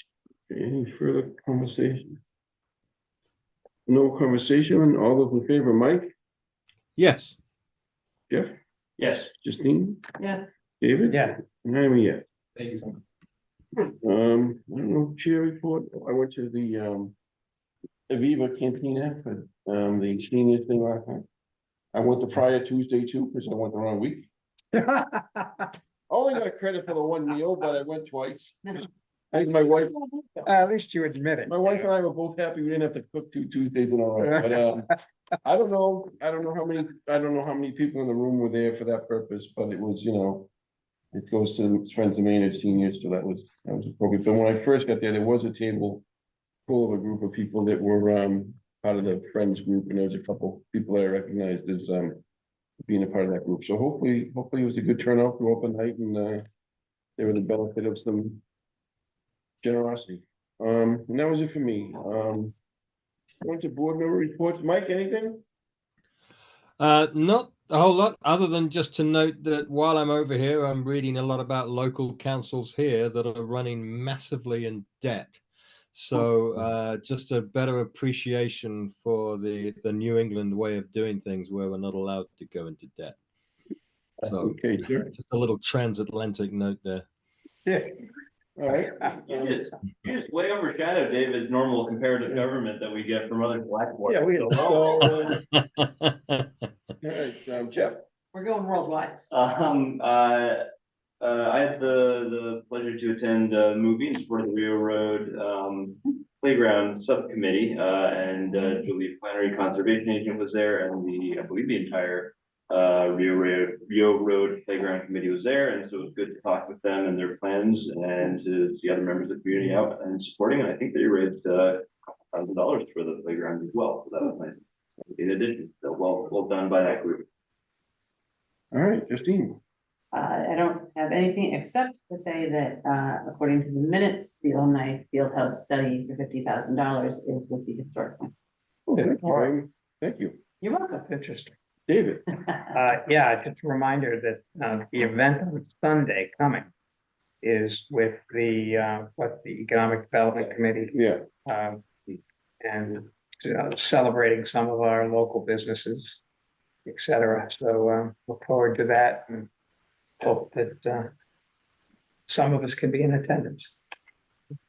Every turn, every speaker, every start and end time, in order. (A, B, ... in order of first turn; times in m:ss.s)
0:00.5-0:02.2 A
0:03.9-0:06.1 A
0:07.0-0:07.4 B
0:09.0-0:09.3 C
0:09.4-0:10.0 A
0:10.2-0:10.4 D
0:10.8-0:12.2 A
0:11.1-0:11.4 E
0:12.6-0:12.9 E
0:13.8-0:17.2 A
0:18.1-0:21.2 A
0:21.9-0:24.3 A
0:24.7-0:25.7 E
0:26.1-0:28.8 A
0:29.3-0:30.3 A
0:30.4-0:31.9 E
0:31.5-0:34.9 A
0:35.4-0:40.5 A
0:41.1-0:46.0 A
0:46.7-0:52.2 A
0:52.8-0:56.4 A
0:57.2-0:58.4 A
0:59.6-1:02.5 A
1:03.4-1:05.4 A
1:06.8-1:15.4 B
1:15.9-1:23.2 B
1:24.2-1:25.1 A
1:24.2-1:27.0 B
1:27.6-1:28.0 E
1:28.6-1:29.7 A
1:29.3-1:35.3 C
1:34.1-1:35.3 E
1:34.8-1:36.5 B
1:37.0-1:38.0 A
1:38.3-1:39.2 E
1:39.3-1:40.6 C
1:41.2-2:07.2 C
2:08.7-2:09.6 A
2:10.1-2:18.3 D
2:18.9-2:20.4 A
2:19.0-2:19.5 E
2:20.6-2:21.0 D
2:21.0-2:21.5 E
2:21.9-2:22.3 A
2:22.7-2:26.7 E
2:27.4-2:31.9 E
2:30.9-2:31.2 A
2:32.6-2:36.2 E
2:36.8-2:39.5 E
2:40.2-2:41.1 E
2:42.3-2:43.8 E